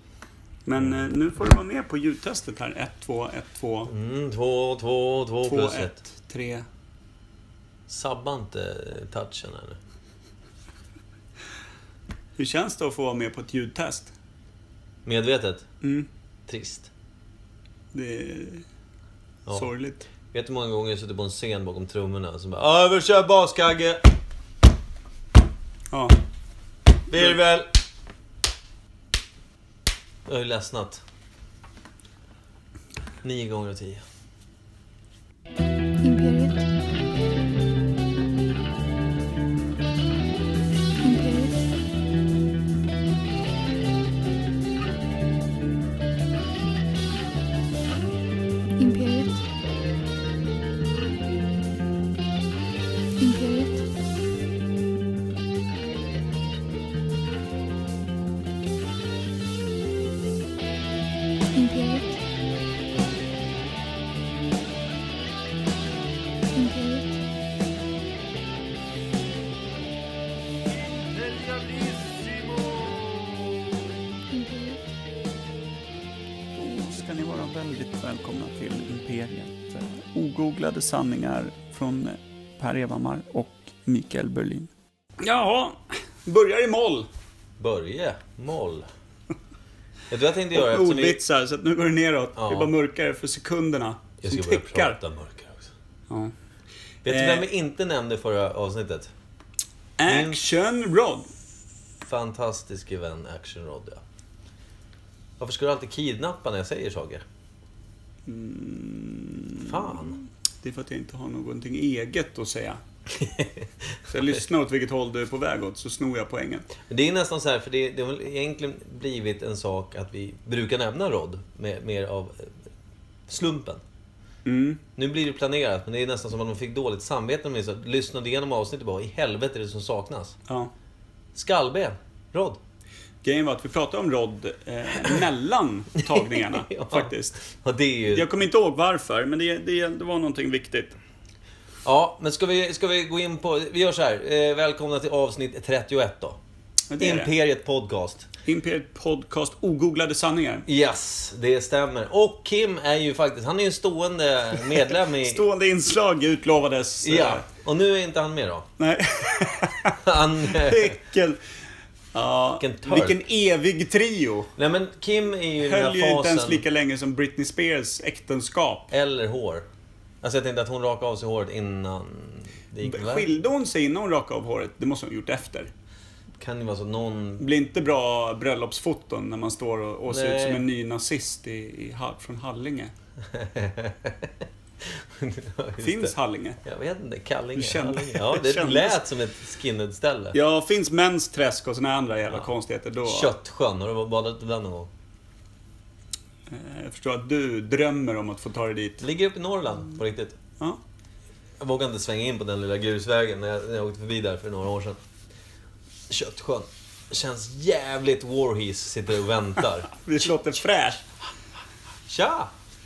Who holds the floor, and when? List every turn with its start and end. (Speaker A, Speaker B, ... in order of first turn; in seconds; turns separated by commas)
Speaker A: 0.7-3.9, Speaker B: 0.8-1.1, Speaker B: 3.9-6.0, Speaker A: 5.5-6.7, Speaker B: 7.9-9.8, Speaker A: 12.4-14.1, Speaker B: 15.1-15.7, Speaker A: 15.8-16.1, Speaker B: 16.5-16.9, Speaker A: 17.9-18.6, Speaker A: 19.5-20.0, Speaker B: 20.2-24.1, Speaker A: 25.9-26.2, Speaker B: 27.1-27.7, Speaker B: 30.3-31.0, Speaker B: 33.2-34.0, Speaker C: 36.0-36.7, Speaker C: 41.0-41.6, Speaker C: 48.8-49.4, Speaker C: 53.2-53.8, Speaker C: 61.5-62.2, Speaker C: 66.5-67.2, Speaker C: 74.3-74.8, Speaker A: 76.6-87.1, Speaker B: 87.6-88.9, Speaker B: 90.1-91.2, Speaker A: 90.5-95.0, Speaker B: 92.4-92.7, Speaker B: 94.2-95.7, Speaker A: 96.1-96.3, Speaker B: 97.0-99.1, Speaker A: 97.1-97.5, Speaker A: 100.0-101.3, Speaker B: 100.0-100.5, Speaker B: 102.0-104.0, Speaker B: 105.4-107.2, Speaker A: 108.3-112.8, Speaker B: 109.6-110.2, Speaker B: 113.2-113.7, Speaker A: 114.1-116.7, Speaker B: 116.9-122.5, Speaker B: 123.3-123.8, Speaker A: 124.5-124.8, Speaker B: 125.0-130.4, Speaker B: 131.3-132.6, Speaker A: 133.2-137.4, Speaker B: 136.0-138.3, Speaker A: 138.1-140.9, Speaker B: 141.8-146.4, Speaker A: 146.9-147.3, Speaker B: 147.0-148.3, Speaker A: 148.4-150.7, Speaker B: 150.7-155.5, Speaker A: 154.7-157.4, Speaker B: 157.0-158.7, Speaker A: 158.8-161.4, Speaker B: 160.0-161.0, Speaker A: 162.1-164.5, Speaker B: 162.6-163.2, Speaker B: 164.6-166.6, Speaker A: 165.6-168.9, Speaker B: 168.9-169.7, Speaker B: 170.2-173.3, Speaker A: 172.8-175.7, Speaker B: 176.4-177.4, Speaker A: 177.4-182.9, Speaker B: 180.1-180.6, Speaker B: 183.3-184.3, Speaker B: 184.9-190.4, Speaker A: 185.8-186.6, Speaker A: 187.6-189.0, Speaker A: 190.3-193.3, Speaker B: 193.1-194.9, Speaker A: 196.5-199.1, Speaker B: 199.0-200.4, Speaker B: 201.6-205.0, Speaker B: 206.1-209.9, Speaker A: 209.9-211.1, Speaker B: 212.1-212.5